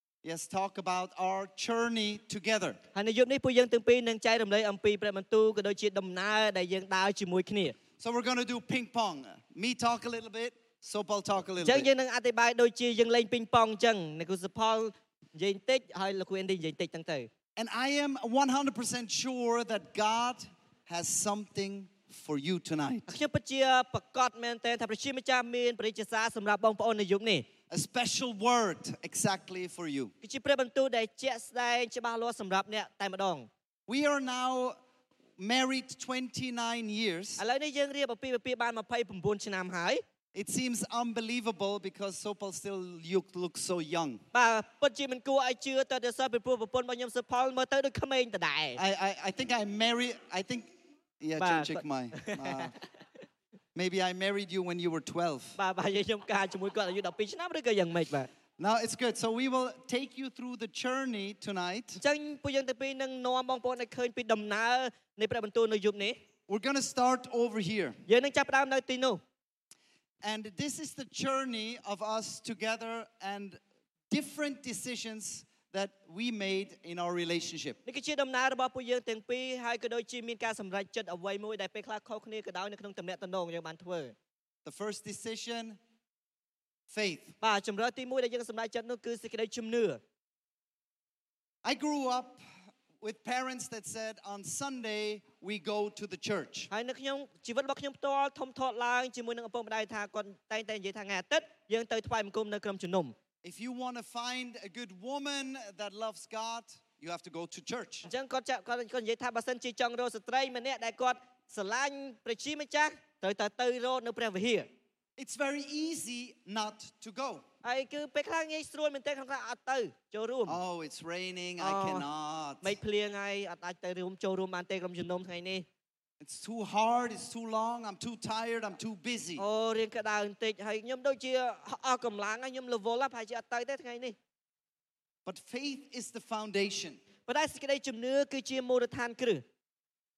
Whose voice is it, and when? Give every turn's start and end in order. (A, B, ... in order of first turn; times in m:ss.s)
0:00.2-0:02.8 A
0:02.9-0:07.8 B
0:08.0-0:11.9 A
0:11.6-0:17.3 B
0:17.6-0:23.1 A
0:23.1-0:27.5 B
0:27.7-0:30.1 A
0:30.2-0:33.5 B
0:33.9-0:34.8 A
0:35.4-0:37.4 A
0:37.4-0:40.0 B
0:40.3-0:44.2 A
0:44.3-0:48.8 B
0:48.8-0:52.7 A
0:51.4-0:52.7 B
0:53.7-0:55.6 A
0:55.6-0:58.3 B
0:58.6-1:02.0 A
1:02.0-1:06.2 B
1:06.5-1:08.0 A
1:08.1-1:09.2 B
1:10.2-1:17.8 A
1:17.9-1:24.1 B
1:24.6-1:25.8 A
1:26.9-1:27.4 A
1:27.4-1:30.0 B
1:31.6-1:32.4 A
1:33.0-1:36.7 A
1:36.7-1:43.1 B
1:43.4-1:48.1 A
1:48.1-1:54.7 B
1:55.2-1:57.4 A
1:57.6-2:00.6 B
2:00.4-2:02.8 A
2:01.6-2:02.0 B
2:02.6-2:05.6 B
2:06.2-2:09.4 A
2:09.4-2:14.2 B
2:15.2-2:17.0 A
2:17.3-2:19.4 B